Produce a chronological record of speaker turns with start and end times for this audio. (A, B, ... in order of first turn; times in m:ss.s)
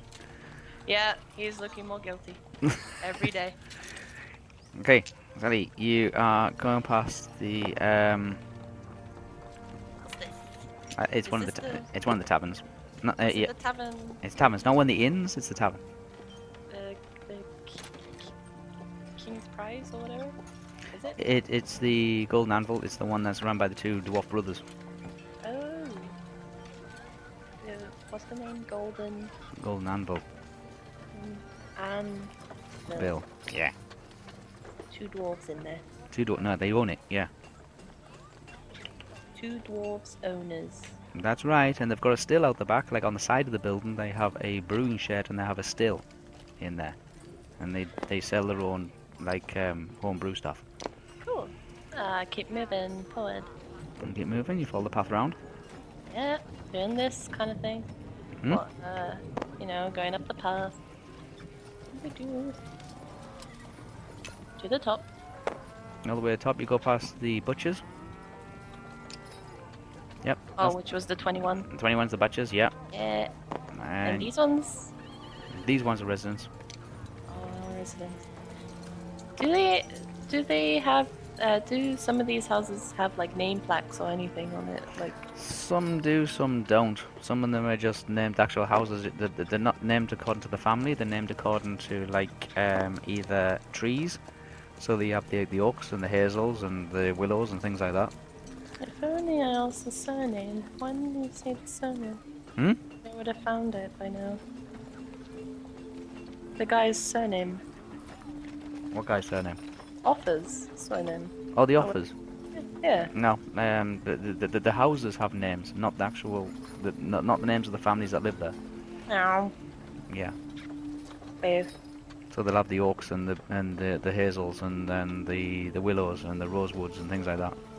0:00.9-0:03.6 A
0:04.7-0:08.4 B
0:10.0-0:10.5 A
0:11.0-0:13.5 B
0:11.3-0:11.9 A
0:13.2-0:14.2 A
0:14.2-0:15.8 B
0:16.7-0:18.3 A
0:19.2-0:20.4 A
0:20.9-0:21.2 A
0:21.2-0:24.6 B
0:25.4-0:26.2 A
0:27.6-0:29.3 A
0:29.6-0:30.2 B
0:31.1-0:32.3 A
0:32.9-0:33.1 A
0:33.0-0:33.7 B
0:34.9-0:35.8 A
0:36.1-0:37.3 B
0:39.3-0:41.0 A
0:41.1-0:46.0 B
0:46.6-0:47.0 B
0:47.6-0:50.6 B
0:51.2-0:53.5 A
0:54.0-0:55.4 B
0:56.1-0:57.9 A
0:58.5-1:00.8 A
1:01.9-1:02.6 A
1:04.6-1:05.0 A
1:06.0-1:07.8 B
1:10.2-1:10.8 B
1:10.6-1:11.7 A
1:11.7-1:12.7 B
1:12.9-1:13.3 A
1:13.7-1:14.3 B
1:14.0-1:14.9 A
1:15.5-1:16.5 B
1:17.3-1:18.3 A
1:19.4-1:25.2 A
1:25.3-1:34.2 B
1:34.8-1:38.1 B
1:38.8-1:42.2 A
1:43.0-1:44.4 A
1:46.6-1:47.6 A
1:48.9-1:49.6 B
1:50.0-1:51.9 A
1:51.6-1:52.1 B
1:52.6-1:53.1 A
1:53.1-1:58.6 B
1:59.1-1:59.5 A
2:00.1-2:00.4 B
2:01.4-2:01.7 A
2:02.3-2:07.6 B